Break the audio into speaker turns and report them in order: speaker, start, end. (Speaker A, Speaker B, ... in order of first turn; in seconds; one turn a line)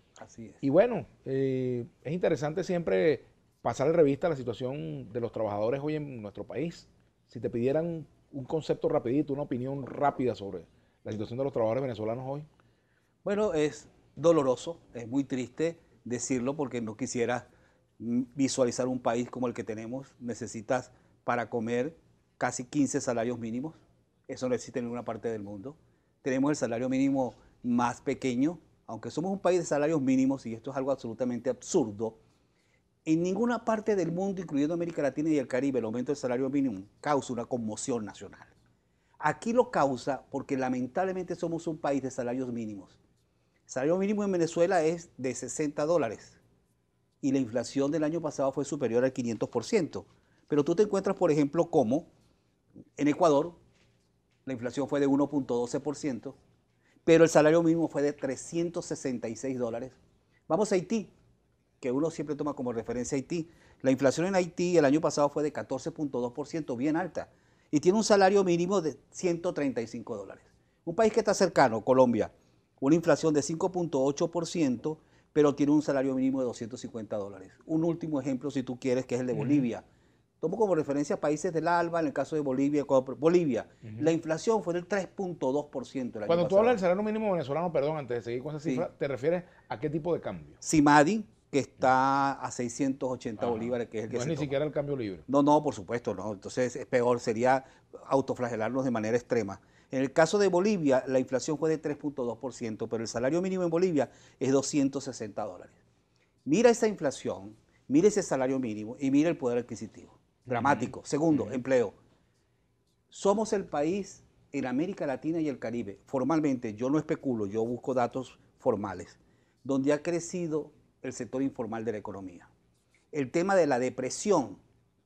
Speaker A: 0.2-0.6
Speaker B: 0.6-12.5
Speaker A: 13.2-17.5
Speaker A: 18.0-32.2
Speaker A: 33.0-38.5
Speaker A: 39.2-43.0
Speaker A: 43.7-46.4
Speaker A: 47.2-52.1
Speaker A: 53.0-53.6
Speaker A: 54.5-56.4
Speaker A: 57.0-60.0
Speaker A: 60.5-61.1
Speaker A: 61.8-79.8
Speaker B: 79.3-79.7
Speaker A: 80.4-86.8
Speaker B: 86.3-90.6
Speaker A: 90.6-94.6
Speaker B: 93.4-95.2
Speaker A: 95.3-105.8
Speaker A: 106.5-112.0
Speaker B: 110.5-111.6
Speaker A: 113.1-122.5
Speaker A: 123.1-124.6